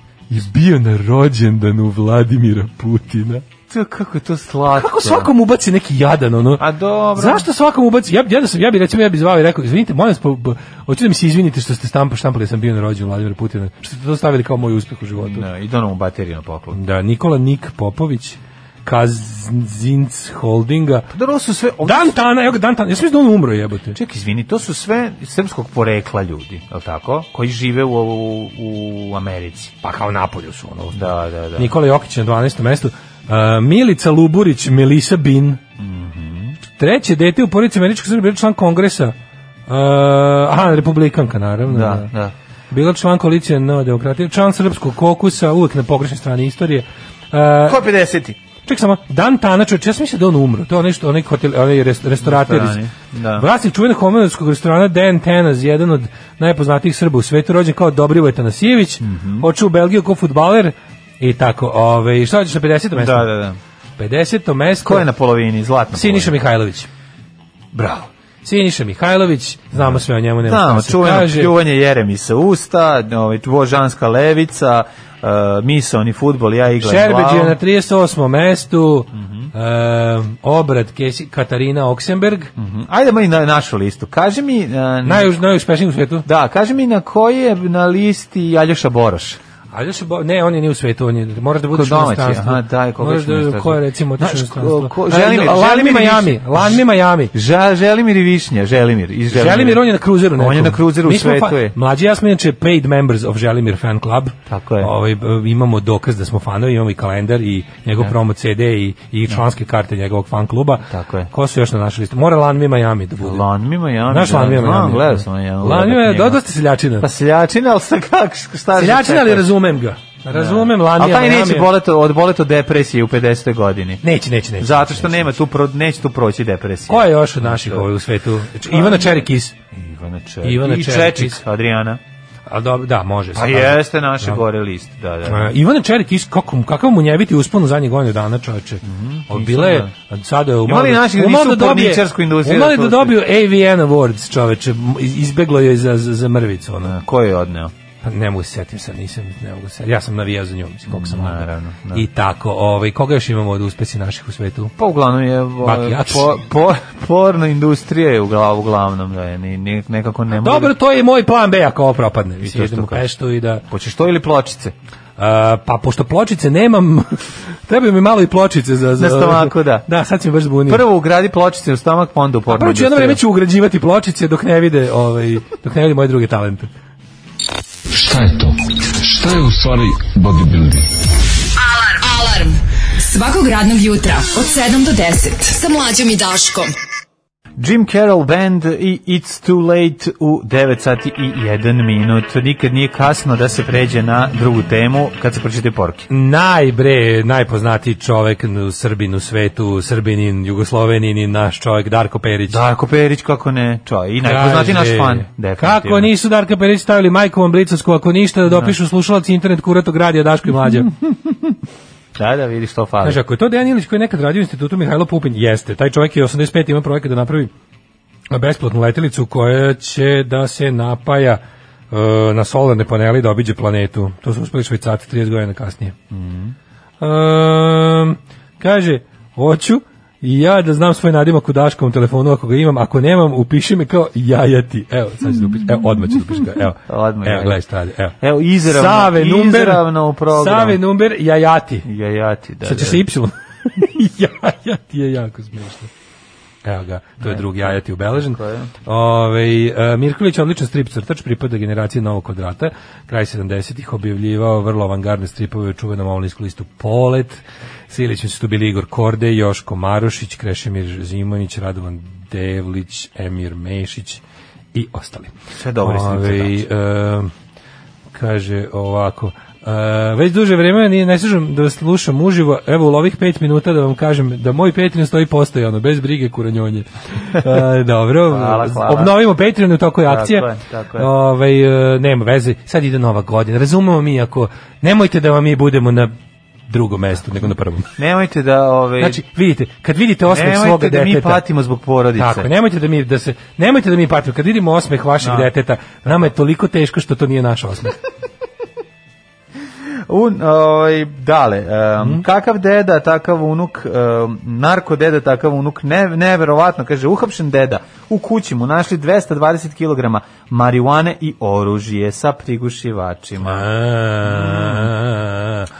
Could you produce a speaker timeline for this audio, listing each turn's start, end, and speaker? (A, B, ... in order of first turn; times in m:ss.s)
0:00.3-0:03.4 A
0:03.7-0:05.3 B
0:04.7-0:15.4 A
0:06.6-0:07.4 B
0:15.2-0:16.8 B
0:16.7-0:21.1 A
0:21.1-0:22.2 B
0:21.8-0:24.0 A
0:23.9-0:29.7 B
0:29.8-0:35.6 A
0:30.9-0:31.7 B
0:35.8-0:36.6 B
0:36.8-0:39.2 A
0:39.7-0:42.1 A
0:41.7-0:42.3 B
0:42.7-0:47.8 A
0:47.6-0:48.4 B
0:48.6-0:52.8 A
0:52.2-0:53.4 B
0:53.3-1:03.3 A
0:59.0-0:59.5 B
1:02.9-1:03.6 B
1:04.0-1:05.1 A
1:04.8-1:06.4 B
1:05.9-1:06.9 A
1:07.7-1:08.1 B
1:08.4-1:11.5 A
1:09.7-1:17.6 B
1:16.8-1:22.5 A
1:19.1-1:19.5 B
1:22.6-1:25.3 B
1:25.0-1:26.2 A
1:26.2-1:29.4 B
1:29.7-1:37.3 A
1:31.7-1:41.7 B
1:39.3-1:53.5 A
1:44.5-1:44.9 B
1:50.9-1:51.3 B
1:53.2-1:56.4 B
1:54.0-1:57.1 A
1:57.0-1:59.5 B
1:58.7-2:01.7 A
2:00.3-2:04.0 B
2:04.0-2:05.4 A
2:04.6-2:07.9 B
2:06.9-2:09.5 A
2:08.6-2:12.0 B
2:10.4-2:11.4 A
2:12.5-2:14.4 A
2:13.3-2:15.5 B
2:15.2-2:27.0 A
2:18.8-2:19.9 B
2:20.6-2:23.2 B
2:26.8-2:27.7 B
2:28.0-2:34.7 A
2:30.9-2:32.0 B
2:34.8-2:40.7 B
2:35.6-2:36.4 A
2:40.3-2:43.6 A
2:42.4-2:43.1 B
2:43.7-2:44.7 B
2:45.2-2:50.8 A
2:49.0-2:49.9 B
2:50.7-2:53.2 B
2:52.5-2:56.7 A
2:57.9-3:00.9 C
3:01.6-3:06.7 D
3:07.6-3:16.1 B
3:16.1-3:22.6 A
3:22.5-3:26.1 B
3:24.2-3:30.9 A
3:28.5-3:28.7 B
3:30.8-3:31.5 B
3:32.2-3:33.2 B
3:33.0-3:37.5 A
3:38.3-3:46.0 A
3:46.1-3:46.5 B
3:47.0-4:01.8 A
3:56.9-3:57.6 B
3:58.2-4:00.8 B
4:01.8-4:03.0 B
4:02.6-4:05.9 A
4:06.6-4:24.2 A
4:07.2-4:08.7 B
4:24.7-4:27.3 A
4:25.5-4:26.6 B
4:28.1-4:46.1 A
4:38.3-4:39.1 B
4:40.1-4:41.1 B
4:46.7-4:47.9 A
4:48.0-4:49.2 B
4:49.0-4:51.4 A
4:50.3-4:52.5 B
4:52.2-4:58.0 A
4:55.2-4:55.5 B
5:00.1-5:13.7 B
5:13.4-5:15.7 A
5:14.2-5:14.9 B